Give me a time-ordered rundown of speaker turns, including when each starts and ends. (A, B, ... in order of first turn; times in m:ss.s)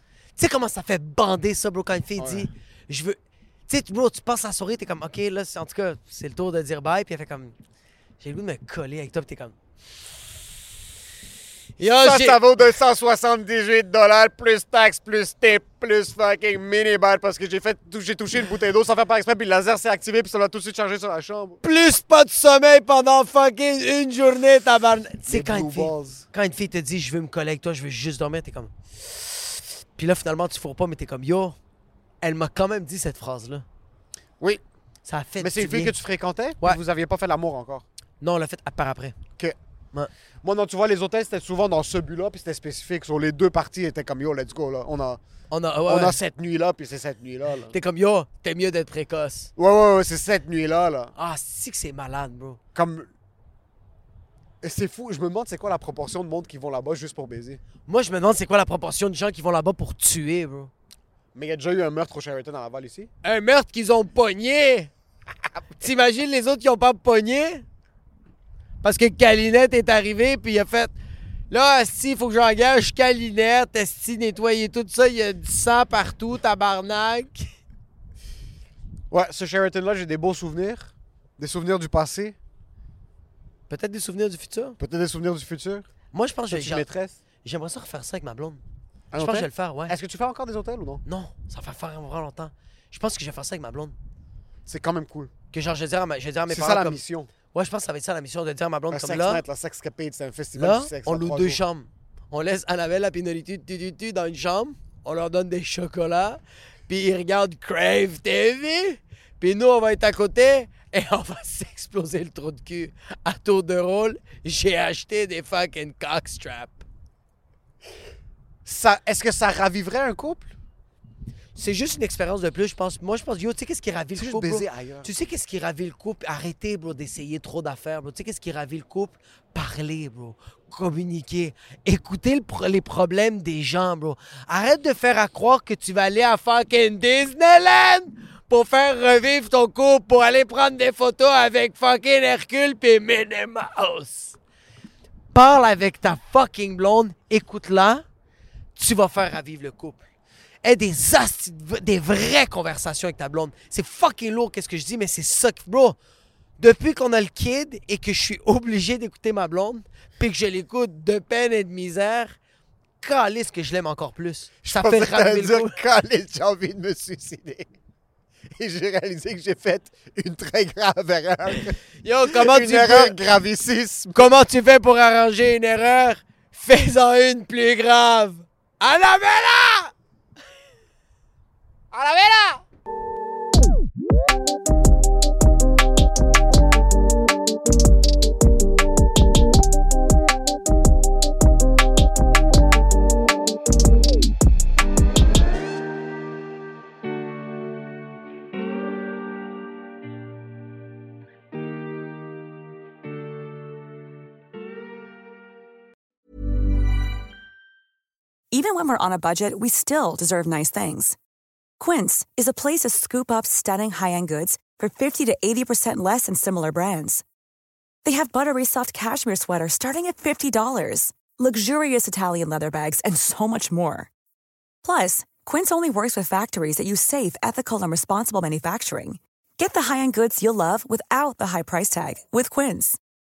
0:00.4-0:07.5 A
0:02.2-0:02.5 B
0:08.2-0:09.5 A
0:11.8-0:12.4 A
0:11.8-0:21.6 B
0:21.6-0:31.5 A
0:25.3-0:26.2 B
0:32.2-0:33.6 A
0:35.0-0:36.0 A
0:35.4-0:37.8 B
0:38.2-0:39.2 A
0:40.4-0:45.2 B
0:45.5-0:46.2 A
0:45.9-0:47.7 B
0:47.7-0:49.5 A
0:49.6-0:51.1 B
0:51.2-0:52.6 A
0:52.7-0:53.1 B
0:54.6-0:57.6 B
0:57.8-1:00.7 A
1:01.3-1:03.1 B
1:03.2-1:04.9 A
1:05.8-1:07.6 A
1:08.8-1:10.9 A
1:11.5-1:17.5 A
1:19.1-1:22.4 B
1:23.7-1:24.8 A
1:24.8-1:25.9 B
1:26.1-1:26.8 A
1:26.5-1:27.2 B
1:27.4-1:28.6 A
1:29.1-1:31.0 B
1:29.2-1:29.9 A
1:31.0-1:33.9 A
1:34.6-1:35.3 B
1:35.5-1:37.0 A
1:36.5-1:37.3 B
1:37.5-1:39.4 A
1:38.9-1:41.6 B
1:40.6-1:56.8 A
1:58.6-2:00.5 B
2:01.5-2:24.4 A
2:04.2-2:05.1 B
2:25.3-2:28.0 A
2:28.8-2:30.0 A
2:30.6-2:36.0 A
2:36.6-2:42.3 A
2:43.0-2:45.8 A
2:44.6-2:47.7 B
2:48.6-2:51.8 B
2:52.0-2:53.1 A
2:52.3-2:54.2 B
2:54.1-2:59.9 A
3:01.9-3:02.6 B
3:28.5-3:31.2 C
3:31.8-3:37.2 C
3:38.0-3:44.1 C
3:44.8-3:53.0 C